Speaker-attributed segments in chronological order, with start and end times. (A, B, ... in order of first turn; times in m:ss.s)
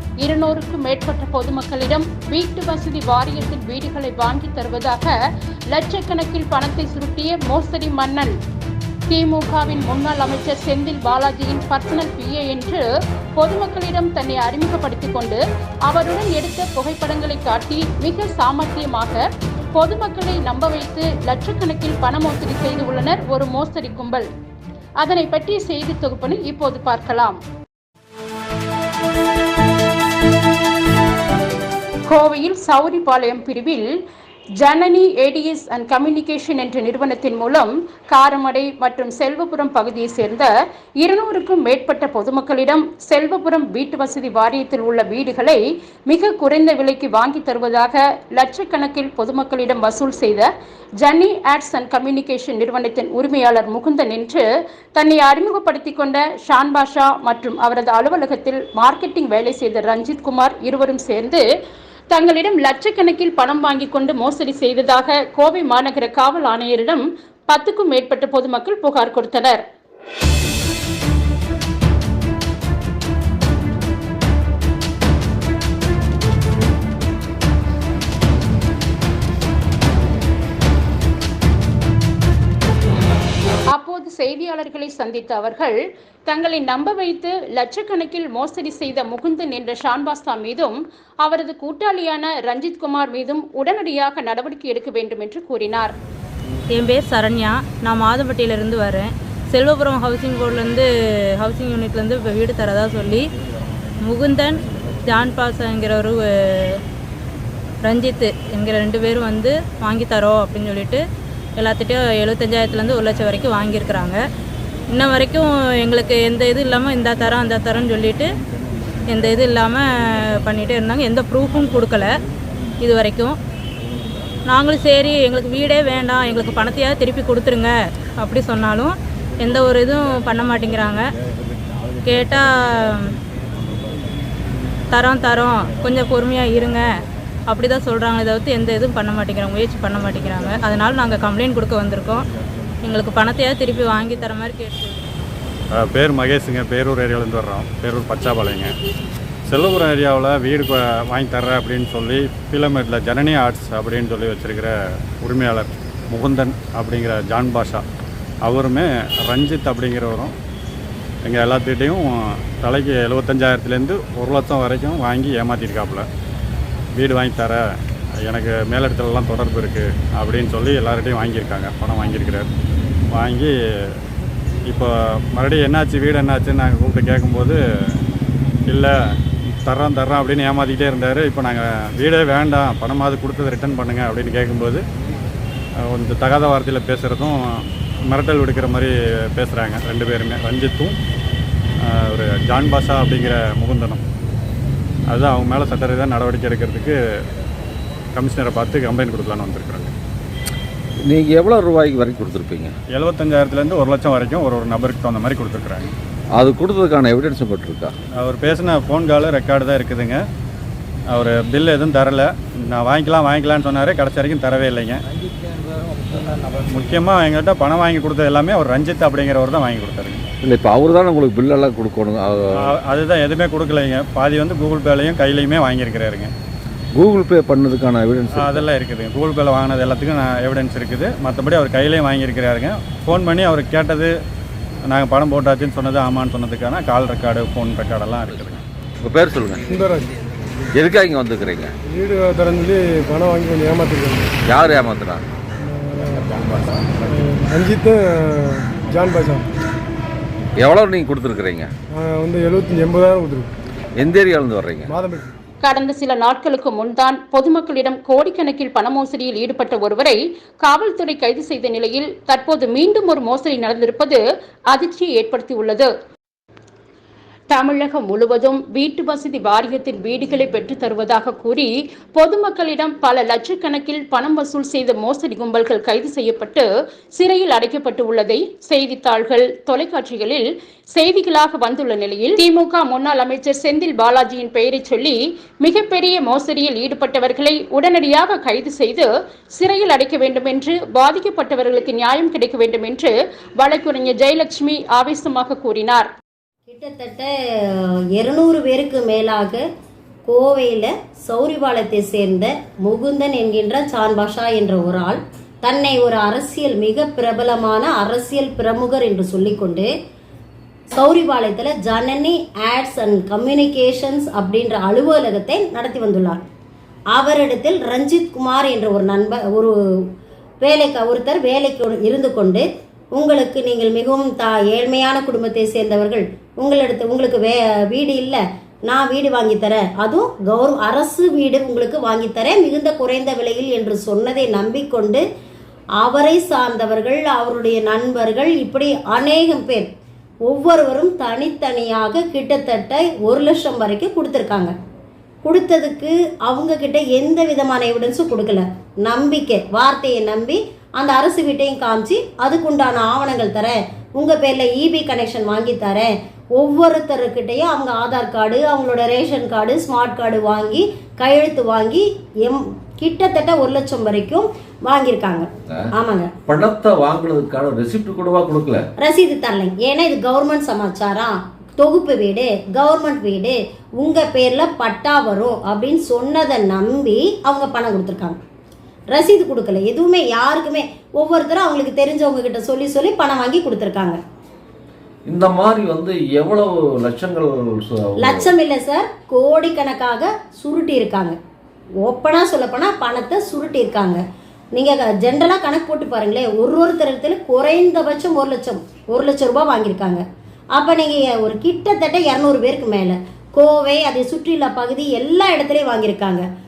0:00.2-0:05.1 A
0:05.7-0:08.3 A
0:09.1-0:12.8 A
0:13.4-0:19.2 A
0:19.8-0:24.3 A
0:25.0-0:27.4 A
0:32.1-0:33.9 A
0:34.6-0:50.5 A
0:51.0-0:54.4 A
0:55.0-1:01.4 A
1:02.1-1:09.6 A
1:23.7-1:36.0 A
1:36.7-1:43.3 B
1:44.0-1:46.8 B
1:47.8-1:51.0 B
1:51.6-1:54.2 B
1:54.9-1:58.3 B
1:59.1-2:02.1 B
2:02.8-2:03.4 B
2:04.5-2:11.1 B
2:12.0-2:13.1 B
2:14.9-2:16.9 B
2:17.5-2:22.2 B
2:22.8-2:25.1 B
2:25.8-2:28.7 C
2:29.5-2:34.7 C
2:35.2-2:37.8 C
2:38.4-2:40.3 C
2:41.2-2:46.1 C
2:47.0-2:47.6 C
2:48.2-2:52.5 C
2:53.1-2:53.9 C
2:54.7-2:58.0 C
2:58.7-2:58.9 C
2:59.7-3:04.8 C
3:05.8-3:10.9 C
3:11.8-3:14.0 C
3:15.1-3:17.0 C
3:18.2-3:19.9 C
3:21.0-3:22.8 D
3:22.9-3:25.8 C
3:26.3-3:28.0 D
3:28.2-3:30.2 C
3:31.1-3:35.0 C
3:36.7-3:40.2 C
3:40.4-3:42.6 D
3:42.6-3:46.3 C
3:47.0-3:48.7 D
3:48.3-3:54.1 C
3:54.9-3:58.6 C
3:58.3-3:59.7 D
3:59.7-4:00.1 E
4:00.8-4:01.7 D
4:01.9-4:04.3 E
4:04.4-4:05.2 D
4:05.7-4:06.2 E
4:06.0-4:07.1 D
4:07.1-4:09.5 E
4:10.6-4:11.7 D
4:12.0-4:13.5 E
4:14.0-4:15.0 D
4:14.9-4:15.3 E
4:15.6-4:24.2 A
4:24.7-4:25.9 A
4:27.5-4:56.1 A
4:56.7-4:59.7 F
5:00.3-5:09.9 F
5:10.9-5:16.4 F
5:17.1-5:19.7 F
5:20.6-5:35.2 F
5:36.0-5:39.9 F
5:40.4-5:44.7 F
5:45.4-6:06.3 F
6:06.4-6:08.9 D
6:09.0-6:18.4 F
6:19.1-6:24.2 F
6:25.2-6:28.5 D
6:28.2-6:31.4 F
6:32.0-6:34.2 F
6:34.8-6:40.2 F
6:40.8-6:46.4 F